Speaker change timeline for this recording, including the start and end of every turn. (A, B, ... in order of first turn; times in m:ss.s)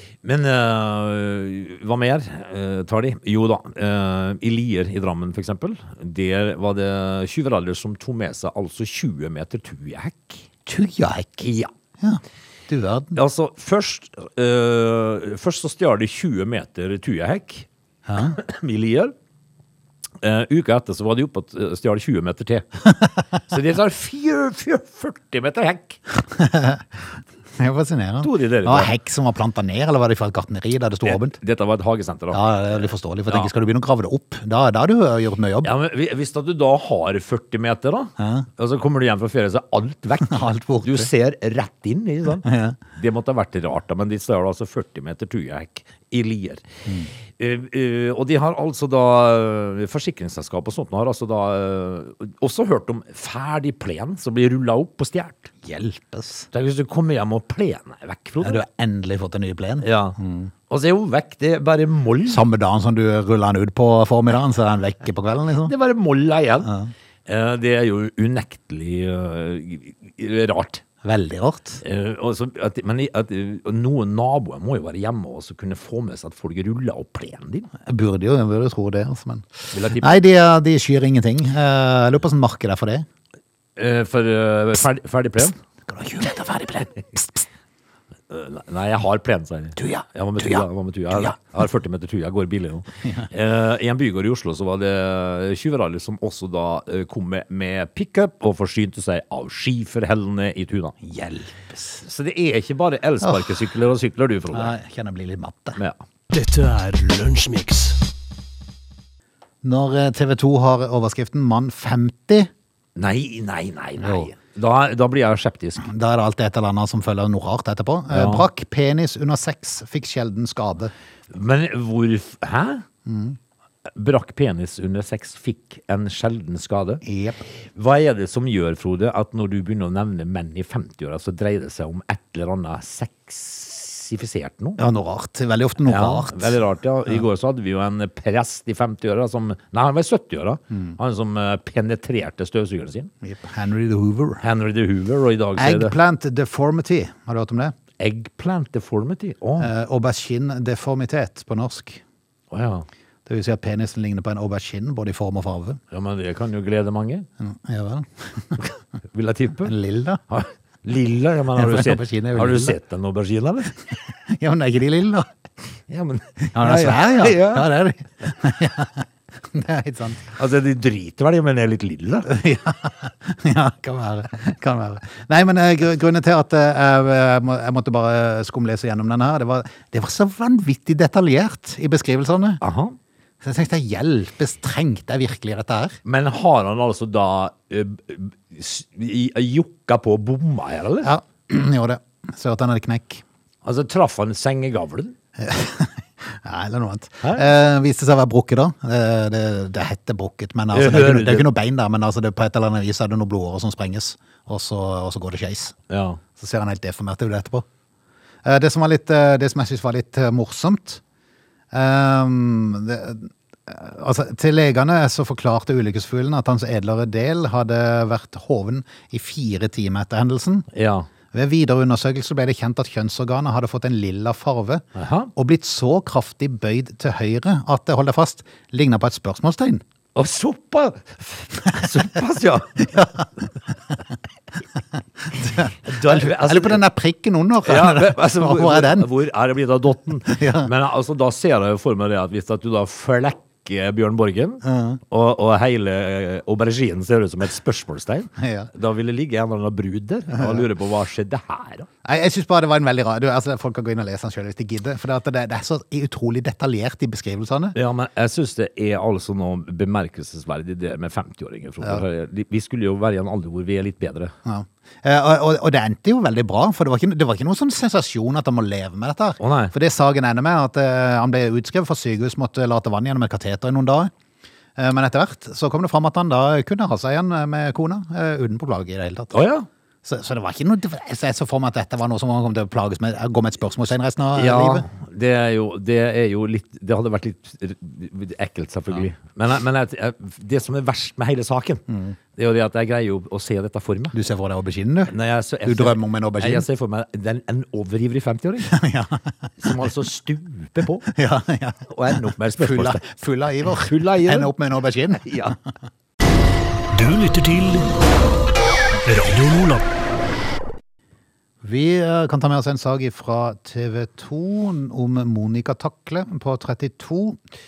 0:00.2-0:10.5 A
0:10.6-0:11.4 B
0:11.4-0:11.7 A
0:12.0-0:13.2 B
0:13.1-0:17.7 A
0:18.1-0:18.4 B
0:18.2-0:19.1 A
0:20.2-0:26.0 A
0:26.2-0:26.8 B
0:27.6-0:31.4 B
0:28.2-0:28.9 A
0:31.0-0:33.5 A
0:32.3-0:35.7 B
0:35.6-0:46.6 A
0:38.2-0:38.5 B
0:40.2-0:41.1 B
0:42.4-0:42.8 B
0:47.4-0:55.5 A
0:55.6-0:56.5 B
0:56.5-0:58.6 A
0:58.4-1:00.5 B
0:59.8-1:00.2 A
1:00.7-1:02.4 A
1:02.3-1:05.7 B
1:05.6-1:06.7 A
1:06.6-1:06.9 B
1:07.2-1:10.8 A
1:11.0-1:11.8 B
1:11.8-1:17.7 A
1:17.8-1:23.1 B
1:19.7-1:20.2 A
1:23.8-1:25.6 A
1:25.9-1:27.4 B
1:28.3-1:41.0 A
1:29.8-1:31.4 B
1:41.0-1:42.0 B
1:42.0-1:44.7 A
1:44.5-1:45.8 B
1:46.3-1:48.0 C
1:49.6-1:52.5 B
1:53.0-1:55.8 A
1:54.0-1:54.3 B
1:55.8-2:00.9 B
1:58.1-1:58.4 A
2:01.3-2:02.8 A
2:03.0-2:03.4 B
2:04.0-2:07.0 A
2:07.0-2:07.4 B
2:07.8-2:14.8 A
2:14.8-2:16.6 B
2:15.8-2:23.1 A
2:20.7-2:21.0 B
2:23.2-2:24.4 B
2:24.4-2:25.9 A
2:25.6-2:27.7 B
2:28.0-2:29.7 A
2:29.6-2:32.0 B
2:32.5-2:32.9 A
2:33.2-2:35.8 B
2:35.9-2:37.2 A
2:37.4-2:38.6 B
2:39.1-2:39.7 A
2:39.6-2:40.2 B
2:40.3-2:43.7 A
2:41.6-2:42.8 B
2:44.3-2:45.3 B
2:45.9-2:47.7 A
2:46.5-2:50.2 B
2:50.3-2:52.3 A
2:52.2-3:02.6 B
3:02.6-3:03.0 A
3:03.4-3:06.0 B
3:06.0-3:11.1 A
3:11.0-3:13.2 B
3:13.6-3:15.1 A
3:15.4-3:25.7 B
3:20.7-3:21.5 A
3:25.9-3:26.2 A
3:26.4-3:27.6 B
3:28.4-3:31.0 B
3:31.7-3:40.6 B
3:40.7-3:41.1 A
3:41.3-3:44.8 B
3:45.0-3:45.3 A
3:45.3-3:49.8 B
3:50.1-3:53.1 A
3:52.9-3:53.2 B
3:55.4-3:59.1 B
3:55.8-3:56.8 A
3:57.6-4:11.9 A
4:00.3-4:00.7 B
4:04.6-4:05.0 B
4:08.4-4:08.7 B
4:10.3-4:10.6 B
4:12.0-4:17.8 B
4:17.7-4:24.3 A
4:24.4-4:34.1 B
4:29.4-4:29.7 A
4:34.8-4:39.3 B
4:39.3-4:39.7 A
4:40.0-4:44.9 B
4:44.3-4:51.8 A
4:52.4-4:54.1 A
4:54.1-4:55.1 B
4:55.1-4:58.7 A
4:55.6-4:56.6 B
4:58.7-4:59.7 B
4:59.6-5:01.1 A
5:01.1-5:05.5 B
5:01.9-5:03.0 A
5:03.6-5:04.5 A
5:05.2-5:05.6 A
5:06.9-5:07.9 C
5:09.0-5:09.8 C
5:11.6-5:17.4 B